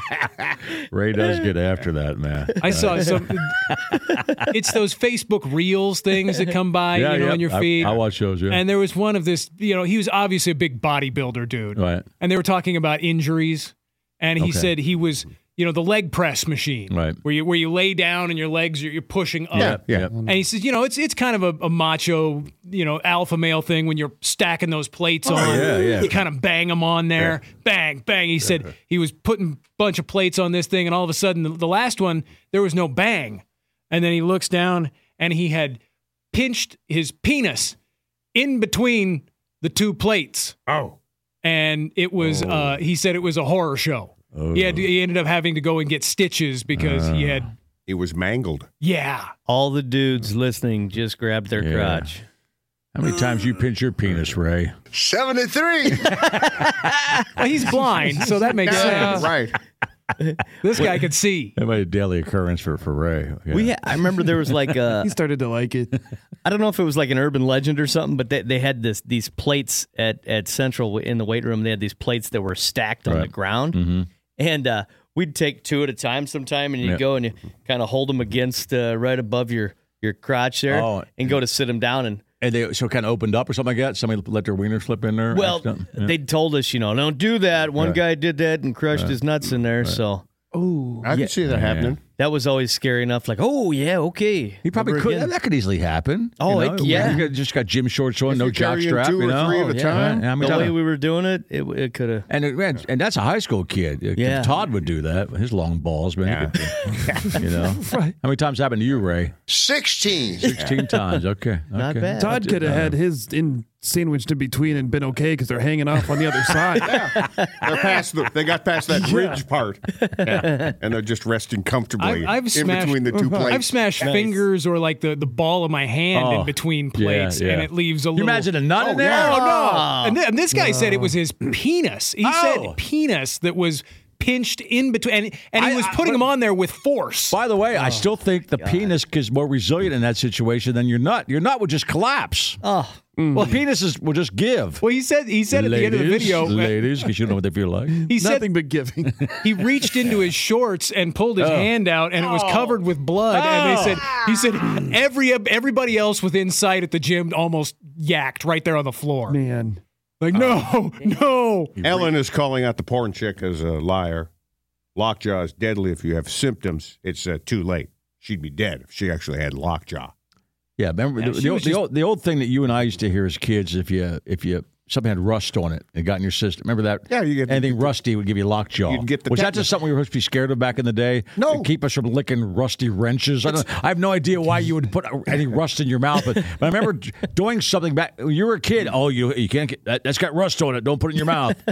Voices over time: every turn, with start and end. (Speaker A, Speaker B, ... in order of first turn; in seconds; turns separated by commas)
Speaker A: 0.9-4.5, Speaker B: 2.6-3.6, Speaker B: 4.5-8.0, Speaker A: 6.9-8.6, Speaker B: 8.5-35.8, Speaker A: 11.8-12.1, Speaker A: 14.4-14.7, Speaker A: 16.9-17.2, Speaker C: 19.5-20.1, Speaker A: 19.6-20.1, Speaker D: 20.1-20.4, Speaker A: 25.3-26.1, Speaker B: 36.3-37.8, Speaker B: 38.4-40.5, Speaker C: 40.7-41.0, Speaker B: 41.4-47.5, Speaker A: 44.3-44.9, Speaker A: 46.7-47.5, Speaker C: 47.9-48.7, Speaker B: 48.8-49.3, Speaker E: 49.5-52.2, Speaker A: 51.6-52.1, Speaker A: 52.9-54.7, Speaker F: 54.9-56.2, Speaker B: 57.4-59.3, Speaker C: 58.7-59.5, Speaker D: 58.7-59.3, Speaker E: 60.2-61.0, Speaker B: 60.6-61.5, Speaker A: 61.6-64.6, Speaker E: 63.5-65.1, Speaker D: 65.0-66.0, Speaker E: 66.4-73.8, Speaker A: 73.1-74.1, Speaker E: 74.4-82.2, Speaker A: 80.7-81.4, Speaker A: 82.4-86.1, Speaker E: 85.3-90.3, Speaker C: 91.0-92.0, Speaker A: 91.4-92.0, Speaker E: 92.2-95.3, Speaker A: 94.6-100.8, Speaker E: 96.4-97.3, Speaker C: 98.3-100.6, Speaker E: 99.5-102.3, Speaker A: 102.3-109.4, Speaker E: 104.2-104.6, Speaker C: 106.2-107.4, Speaker D: 107.8-108.1, Speaker F: 109.5-110.6, Speaker A: 110.4-113.0, Speaker E: 111.8-112.5, Speaker D: 112.2-117.1, Speaker C: 116.8-123.9, Speaker E: 117.2-117.8, Speaker D: 119.0-119.4, Speaker E: 120.0-120.7, Speaker B: 122.0-128.5, Speaker D: 123.1-123.6, Speaker E: 124.0-124.4, Speaker A: 126.1-129.4, Speaker C: 128.8-129.4, Speaker B: 129.0-137.4, Speaker E: 129.2-130.2, Speaker D: 130.5-131.1, Speaker A: 132.2-132.8, Speaker A: 135.6-136.2, Speaker A: 137.3-142.6, Speaker E: 137.7-138.9, Speaker E: 142.6-143.0, Speaker D: 143.2-143.6, Speaker A: 143.3-144.8, Speaker B: 144.8-146.8, Speaker A: 145.5-148.1, Speaker D: 148.0-149.3, Speaker B: 148.1-148.5, Speaker B: 149.4-159.4, Speaker A: 151.4-151.7, Speaker A: 153.3-154.3, Speaker D: 159.3-159.8, Speaker B: 160.2-161.7, Speaker C: 160.3-160.6, Speaker A: 161.8-162.1, Speaker C: 161.8-164.3, Speaker C: 164.9-170.1, Speaker A: 170.8-191.6, Speaker B: 171.2-171.8, Speaker C: 177.1-178.0, Speaker C: 178.9-179.7, Speaker C: 181.4-181.7